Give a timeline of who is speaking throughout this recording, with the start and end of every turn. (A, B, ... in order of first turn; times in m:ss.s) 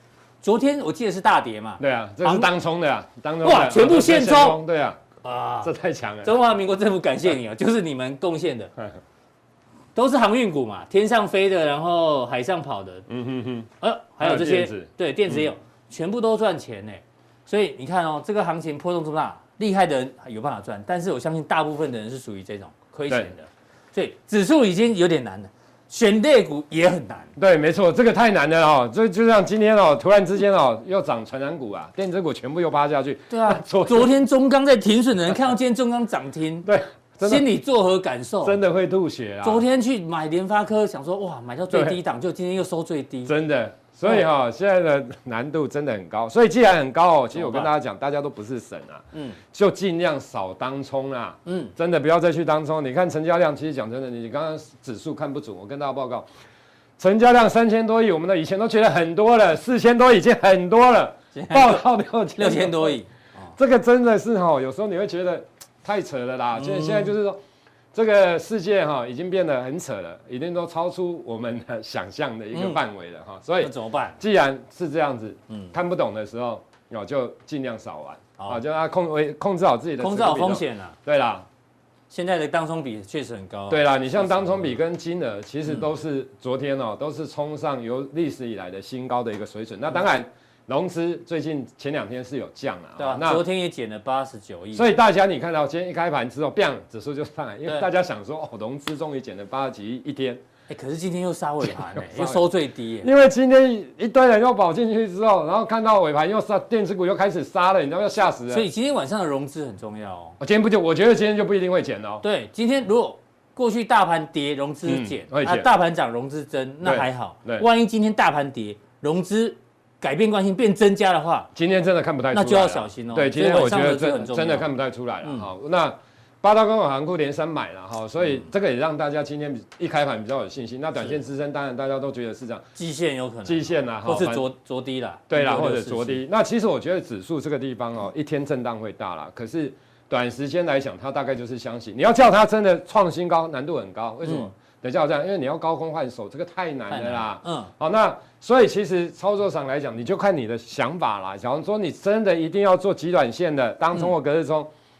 0:00.4-0:02.5 A
0:01.8-0:05.0 B
0:03.4-0:04.6 A
0:05.2-0:05.7 A
0:05.6-0:06.3 B
0:06.2-0:08.7 A
0:09.9-0:13.0 A
0:13.1-0:13.7 B
0:13.8-0:27.3 A
0:14.2-0:15.5 B
0:27.4-0:34.1 B
0:33.3-0:36.7 A
0:36.6-0:37.5 B
0:37.2-0:38.6 A
0:38.4-0:39.6 B
0:39.4-0:43.3 A
0:41.7-0:42.0 B
0:43.2-0:56.3 B
0:47.3-0:47.7 A
0:49.1-0:49.4 A
0:51.4-0:51.7 A
0:57.0-1:03.0 B
1:01.3-1:01.8 A
1:02.4-1:03.5 A
1:03.6-1:07.4 B
1:06.6-1:07.1 A
1:07.9-1:21.4 B
1:12.5-1:12.8 A
1:13.6-1:14.2 A
1:20.0-1:21.0 A
1:22.1-1:24.8 A
1:23.7-1:33.4 B
1:33.0-1:34.9 A
1:34.7-1:40.4 B
1:40.7-1:43.1 A
1:41.7-1:42.4 B
1:43.0-1:48.7 B
1:48.5-1:50.4 A
1:50.4-1:52.2 B
1:52.2-2:01.5 A
1:54.8-1:55.7 B
1:56.8-1:57.6 B
2:01.5-2:12.7 B
2:02.3-2:04.7 A
2:05.2-2:05.5 A
2:12.8-2:16.2 A
2:13.4-2:14.5 B
2:15.3-2:34.7 B
2:24.2-2:24.5 A
2:26.9-2:27.7 A